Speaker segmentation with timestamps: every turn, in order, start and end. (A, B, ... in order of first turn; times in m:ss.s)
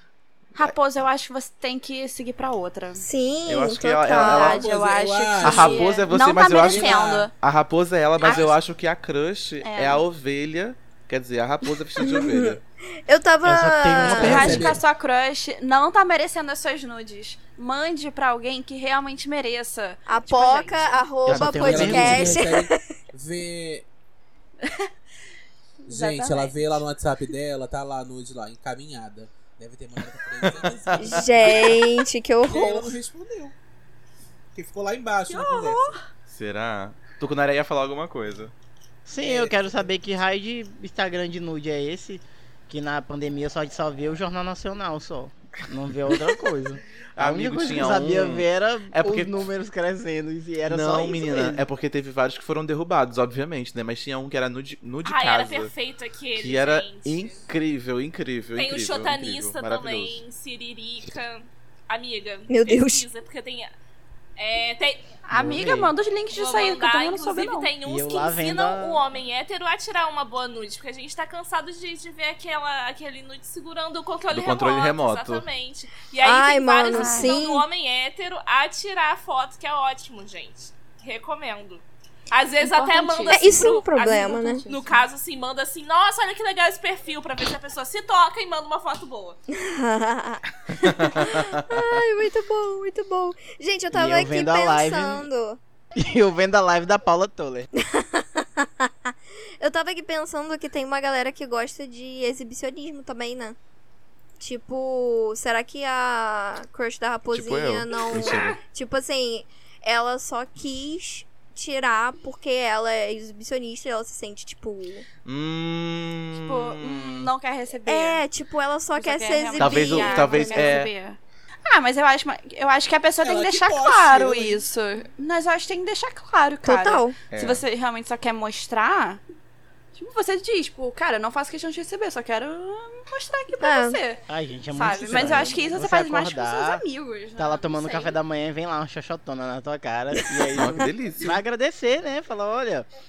0:00.6-0:03.1 A
0:03.0-0:04.6 B
0:03.5-0:04.6 C
0:04.1-0:07.3 A
0:04.4-0:07.3 D
0:05.4-0:12.6 C
0:08.2-0:08.6 A
0:09.6-0:10.0 A
0:12.0-0:12.5 B
0:12.3-0:12.6 D
0:13.1-0:14.6 B
0:13.4-0:14.8 E
0:14.0-0:14.8 D
0:14.1-0:21.0 A
0:20.1-0:23.0 B
0:21.2-0:22.5 E
0:21.3-0:22.2 C
0:21.5-0:23.9 D
0:24.6-0:24.9 A
0:25.9-0:26.8 A
0:25.9-0:33.6 D
0:30.5-0:31.7 C
0:31.0-0:32.9 B
0:34.5-0:36.0 D
0:35.3-0:36.0 A
0:36.3-0:38.5 C
0:39.1-0:51.6 E
0:39.2-0:39.9 D
0:47.2-0:49.3 C
0:50.7-0:55.7 C
0:55.0-0:57.4 F
0:56.4-1:00.2 C
0:58.6-1:03.7 F
1:02.5-1:03.1 B
1:04.4-1:05.1 F
1:05.3-1:07.7 A
1:05.3-1:05.9 E
1:06.3-1:29.4 F
1:07.8-1:09.0 E
1:14.3-1:15.4 C
1:16.2-1:17.6 B
1:16.9-1:17.4 A
1:22.6-1:23.4 A
1:23.3-1:24.7 B
1:24.6-1:24.9 A
1:29.5-1:35.6 B
1:30.8-1:32.0 C
1:33.9-1:35.3 E
1:36.0-1:37.7 E
1:37.8-1:43.6 B
1:44.4-1:55.0 B
1:47.3-1:48.6 C
1:55.2-1:57.3 C
1:56.4-1:58.2 A
1:57.9-2:00.9 B
1:59.0-2:09.2 A
1:59.6-2:00.9 C
2:03.2-2:04.7 D
2:06.6-2:07.2 B
2:07.3-2:07.6 C
2:10.0-2:14.2 A
2:13.6-2:14.0 B
2:14.3-2:16.8 E
2:14.7-2:18.2 A
2:15.2-2:15.5 C
2:17.4-2:22.9 E
2:20.5-2:21.4 C